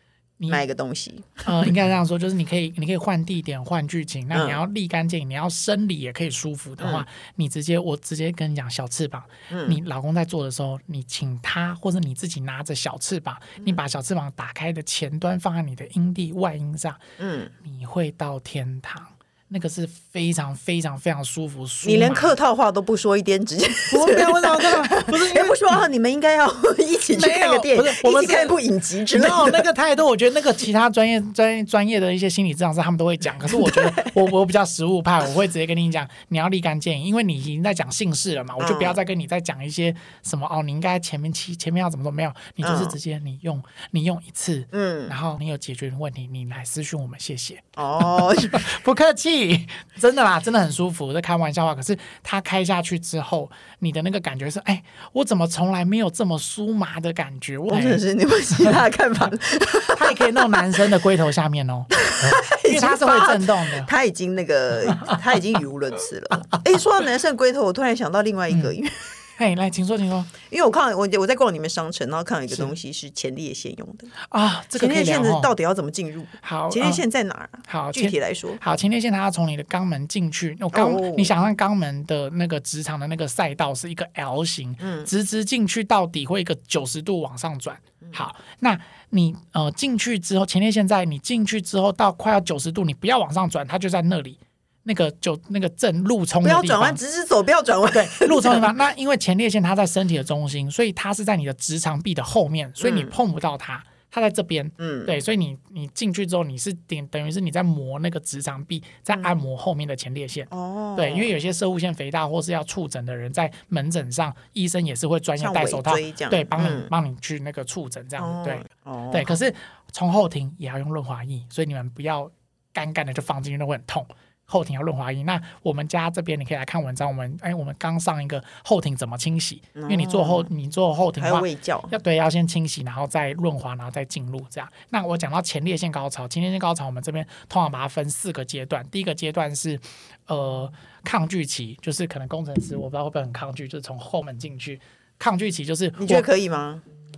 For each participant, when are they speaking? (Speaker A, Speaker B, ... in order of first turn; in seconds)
Speaker A: 0.5-1.7, 4.3-4.6, 6.8-7.0, 9.5-9.8, 17.2-17.5, 21.8-29.6, 33.6-34.1, 38.6-39.0, 42.6-43.0, 44.7-45.1, 47.8-48.7, 57.7-60.8, 62.0-69.2, 70.4-74.1, 74.8-78.6, 80.7-81.3, 84.8-85.1, 96.4-98.7, 102.8-103.1, 104.8-105.1, 110.5-111.3, 115.4-116.9, 118.2-119.4, 129.8-130.5, 131.2-131.9, 146.0-146.8
Speaker B: 1.4-17.0, 17.6-22.3, 23.9-25.6, 27.1-28.6, 29.1-58.0, 59.9-63.9, 68.5-68.7, 69.4-70.3, 74.2-75.5, 76.4-77.0, 77.7-97.0, 97.9-146.2